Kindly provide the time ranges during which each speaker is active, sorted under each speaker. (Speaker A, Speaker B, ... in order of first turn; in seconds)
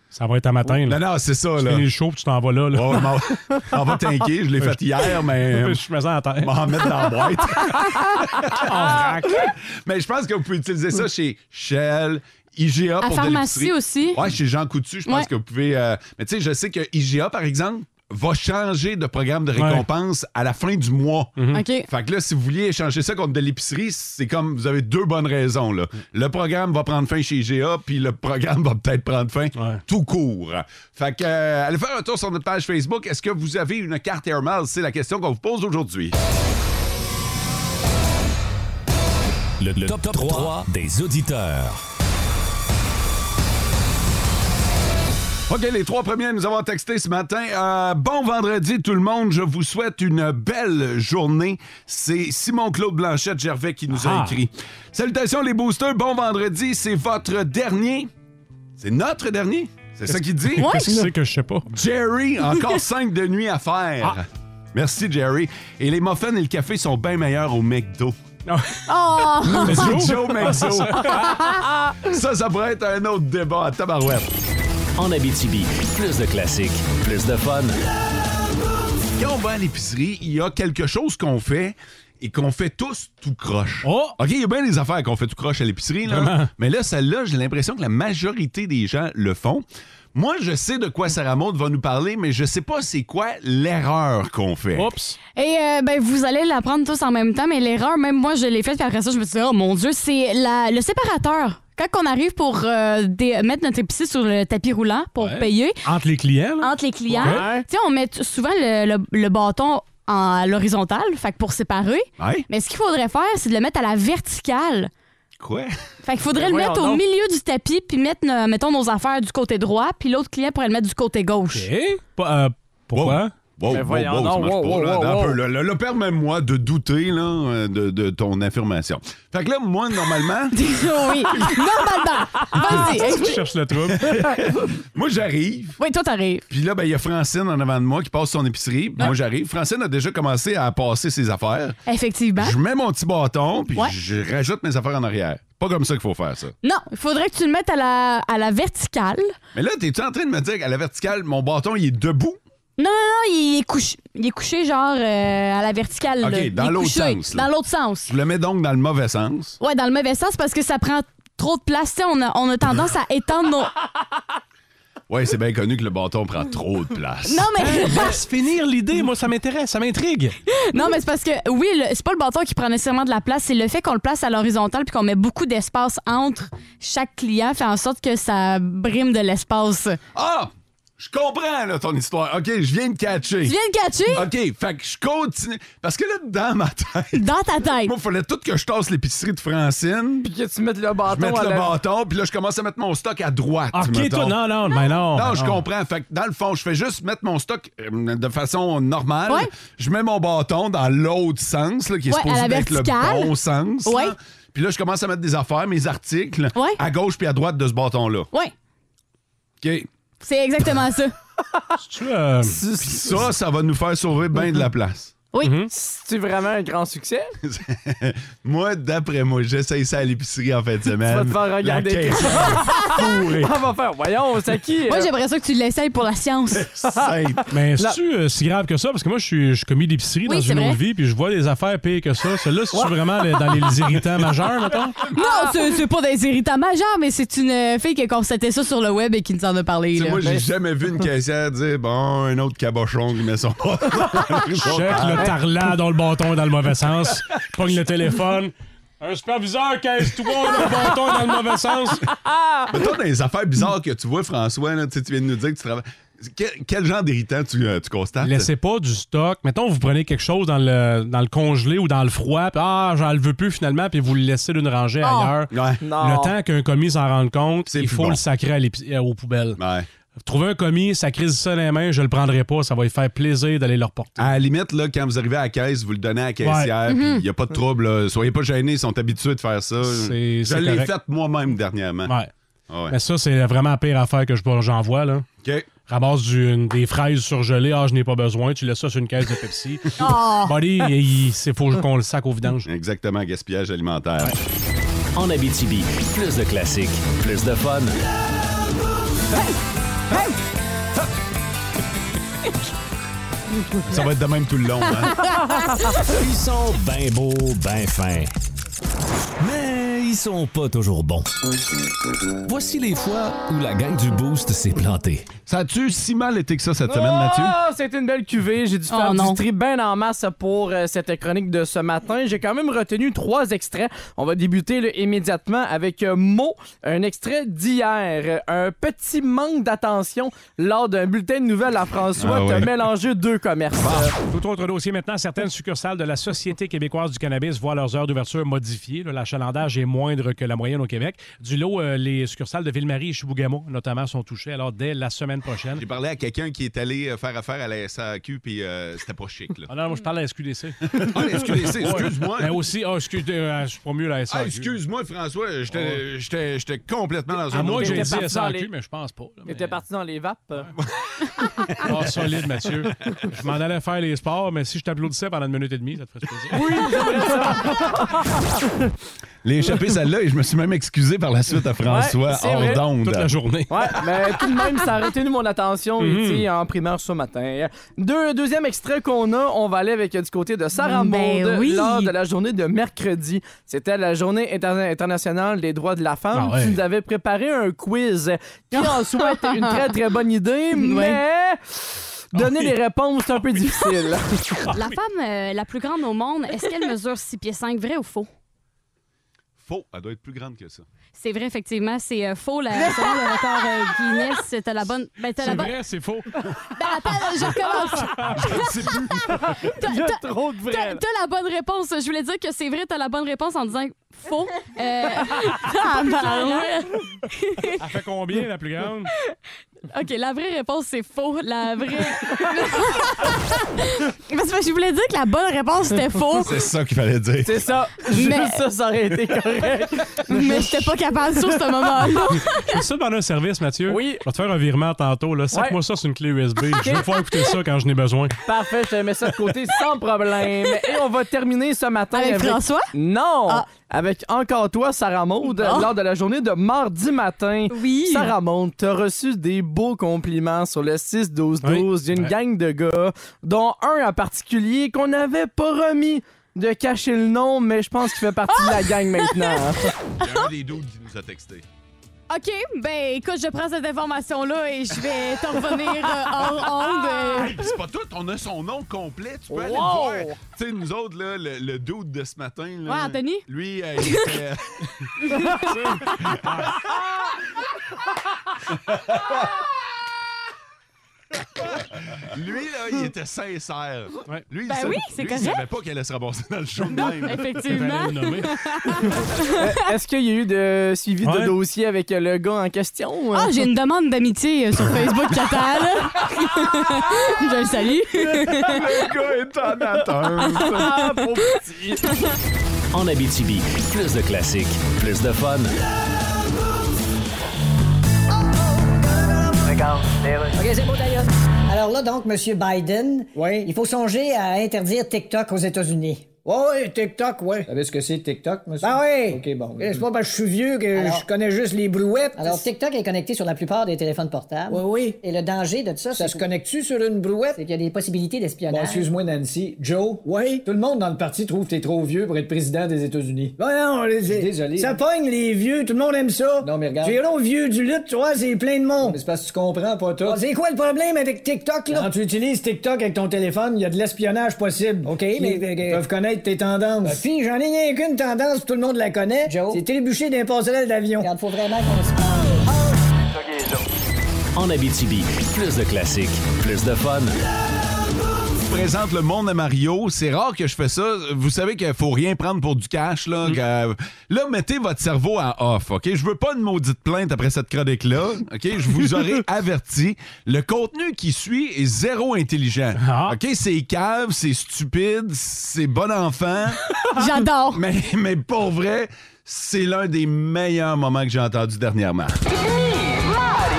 Speaker A: 0.1-1.0, 1.6-3.3, 5.4-6.6, 8.6-9.5, 19.6-19.8, 21.4-21.6, 53.9-54.4, 60.6-61.7, 68.5-68.8, 69.5-71.2, 83.8-84.2, 86.1-86.5, 94.7-95.2, 105.2-107.5, 121.5-123.3, 132.6-134.4, 167.6-170.3, 193.7-195.6, 211.8-212.6, 215.4-215.7, 227.5-235.0, 244.6-252.0, 258.2-269.6, 270.2-274.3, 276.4-276.7, 279.8-280.9, 282.1-282.3, 282.9-285.3, 285.9-292.7, 334.2-345.8, 349.7-354.7, 357.5-359.8, 361.8-367.0, 373.0-374.0, 376.0-376.5, 386.3-386.8, 392.3-392.7, 405.4-406.3, 417.8-419.1, 432.6-438.4, 451.6-452.3, 475.9-476.7, 487.6-488.5, 491.2-491.5, 573.0-573.3
Speaker B: 0.7-1.9, 2.7-5.8, 6.4-36.2, 45.5-58.1, 58.8-60.8, 61.7-68.2, 69.5-71.2, 72.0-74.3, 79.2-94.9, 112.2-112.5, 115.4-115.8, 122.9-130.6, 133.9-135.8, 136.5-141.8, 142.4-146.5, 149.5-152.4, 156.2-157.5, 158.1-159.6, 165.1-167.5, 180.1-183.6, 184.1-187.2, 187.8-190.3, 191.1-194.4, 195.1-208.3, 209.6-209.9, 212.8-215.1, 217.4-223.5, 226.5-227.4, 239.9-245.3, 252.7-258.5, 265.5-265.8, 267.7-268.2, 269.6-269.9, 274.2-282.1, 282.7-282.9, 285.4-285.7, 292.6-294.4, 303.8-305.2, 315.4-317.6, 332.2-332.7, 333.8-334.1, 345.8-349.7, 350.9-352.6, 354.3-358.2, 369.4-373.3, 399.6-400.8, 408.4-409.4, 426.3-427.6, 460.2-461.6, 467.1-475.1, 476.2-476.6, 478.9-479.4, 482.1-487.5, 498.3-501.6, 558.7-576.9, 577.7-582.4
Speaker C: 13.0-14.2, 21.5-21.9, 60.6-61.0, 68.9-70.1, 71.1-71.6, 95.3-105.8, 106.6-114.9, 116.0-121.7, 130.5-133.4, 135.8-136.4, 141.9-142.6, 146.6-149.3, 152.8-158.1, 159.6-163.7, 167.2-168.2, 170.5-180.0, 183.4-184.2, 187.1-187.9, 202.1-203.3, 203.8-204.1, 206.5-206.8, 210.2-211.1, 224.9-226.7, 230.2-230.8, 235.1-240.2, 265.0-265.4, 276.9-277.2, 290.0-290.6, 305.4-305.8, 318.9-319.4, 380.8-382.1, 388.7-389.8, 390.7-391.2, 394.7-398.3, 401.1-405.7, 406.7-409.0, 409.6-417.8, 419.9-426.6, 428.1-428.6, 430.2-432.8, 442.1-442.9, 445.6-445.9, 447.7-448.3, 458.6-459.5, 462.3-467.6, 472.9-473.4, 475.3-475.6, 484.6-485.6, 487.0-489.6, 493.3-498.8, 500.6-500.9, 577.1-577.8
Speaker D: 39.6-41.8, 306.1-308.3, 309.4-311.3, 312.4-315.3
Speaker E: 39.9-40.4, 75.0-77.8, 295.1-297.9, 502.9-505.7, 554.5-557.3
Speaker F: 107.2-107.6, 116.3-117.0, 123.7-125.4, 190.2-191.7, 212.4-213.2, 215.7-217.3, 221.0-225.1, 232.7-233.0, 265.8-266.3, 316.9-334.1, 357.5-358.7, 359.4-360.7, 366.5-368.4, 371.9-372.8, 373.7-394.7, 409.6-411.0, 427.4-430.9, 433.9-434.2, 435.5-435.8, 436.7-437.1, 438.4-459.9, 469.5-470.4, 489.6-493.7, 500.8-501.1
Speaker G: 510.5-516.4, 518.8-520.1, 520.9-521.3, 522.4-526.5, 527.5-529.1, 534.3-535.0, 536.6-537.2, 540.2-542.1, 545.0-546.0, 549.4-549.8, 551.2-552.6
Speaker H: 513.4-513.7, 516.4-522.6, 524.7-525.2, 526.1-527.6, 528.7-540.5, 541.3-551.3